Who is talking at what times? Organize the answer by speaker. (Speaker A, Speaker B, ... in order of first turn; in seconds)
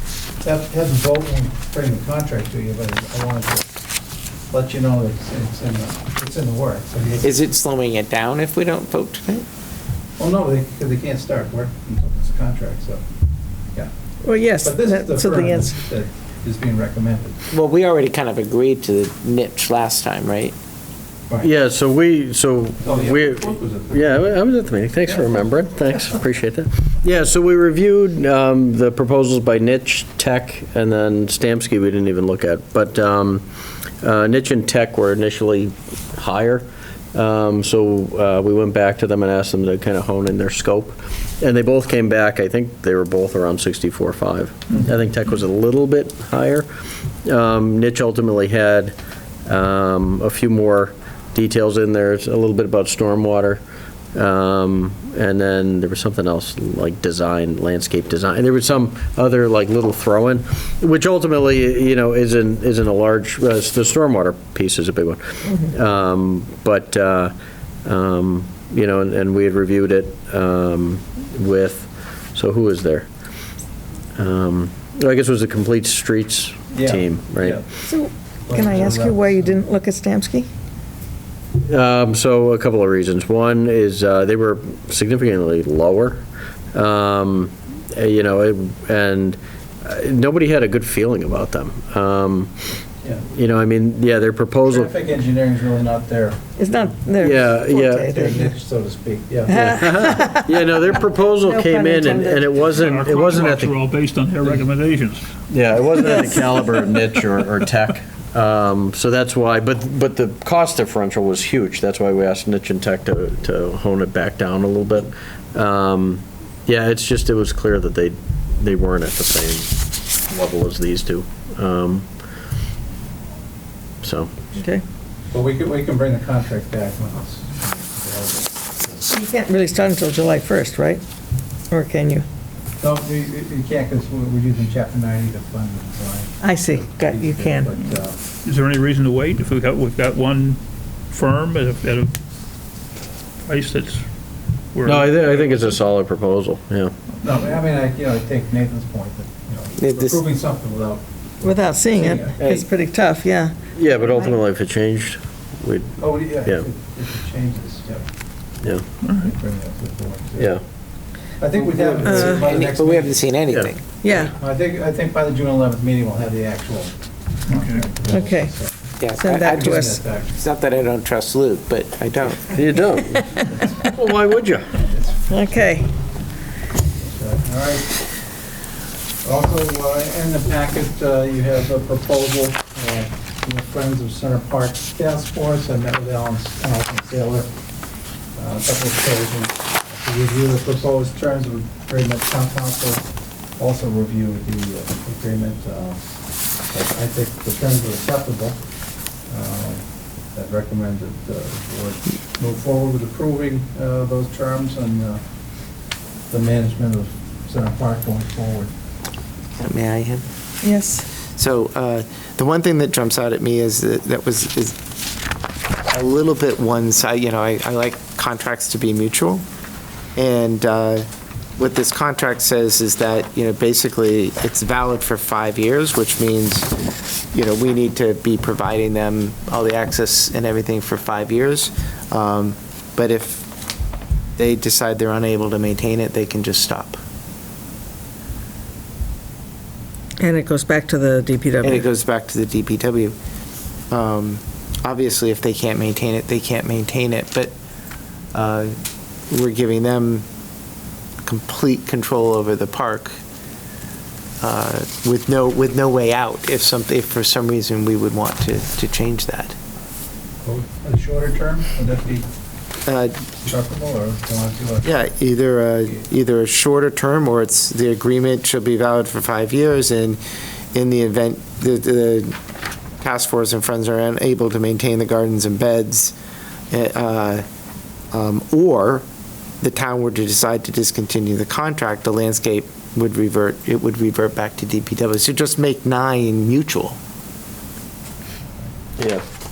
Speaker A: 0.4-3.7, 4.5-7.4, 10.2-13.0, 14.6-17.4, 22.8-24.3, 76.7-77.7, 78.5-79.6, 94.7-96.4, 98.1-100.1, 125.3-129.0, 132.8-138.2, 147.2-152.4, 156.0-158.1, 159.1-160.5, 161.4-163.2, 164.1-170.3, 174.8-175.7, 177.0-178.0, 179.2-187.5, 188.3-193.0, 193.6-196.0, 196.7-198.6, 199.3-205.2, 206.3-208.7, 260.4-262.3, 263.4-264.9
Speaker B: 7.2-9.4, 17.5-20.6, 149.8-150.2, 161.6-163.8, 169.0-172.6, 209.6-210.2, 211.3-214.8, 215.9-219.4, 220.2-221.0, 221.6-226.7, 227.3-233.4, 234.4-237.0, 241.6-243.1, 243.9-247.5, 248.3-248.7, 249.3-250.2, 251.2-253.2, 254.4-259.6, 262.9-263.2, 264.8-270.2, 270.7-272.3, 273.0-276.1, 276.7-277.4, 278.1-279.0, 279.6-287.0
Speaker C: 14.2-15.7, 77.8-80.5, 96.6-98.5, 99.5-100.7, 101.4-102.6, 106.0-106.5, 124.5-124.8, 129.1-131.0, 131.7-132.2, 136.4-137.7, 151.4-154.3, 162.0-162.5, 164.0-164.3, 168.1-168.5, 169.2-170.0, 172.9-173.4, 175.3-175.9, 210.6-211.1, 240.2-241.8
Speaker D: 21.4-33.5, 34.0-46.7, 47.2-49.0, 49.5-53.6, 54.1-67.3, 67.8-73.1, 74.2-77.6, 81.7-92.5, 93.3-94.9, 97.2-98.1, 99.6-103.8, 105.5-122.1, 124.0-124.4, 144.8-146.9, 152.4-152.7, 153.7-156.7, 160.4-160.6, 172.4-174.7, 289.0-289.2
Speaker E: 102.7-105.3, 106.0-106.6, 138.4-142.1, 143.5-144.1, 144.7-145.6, 159.0-159.3, 167.5-167.9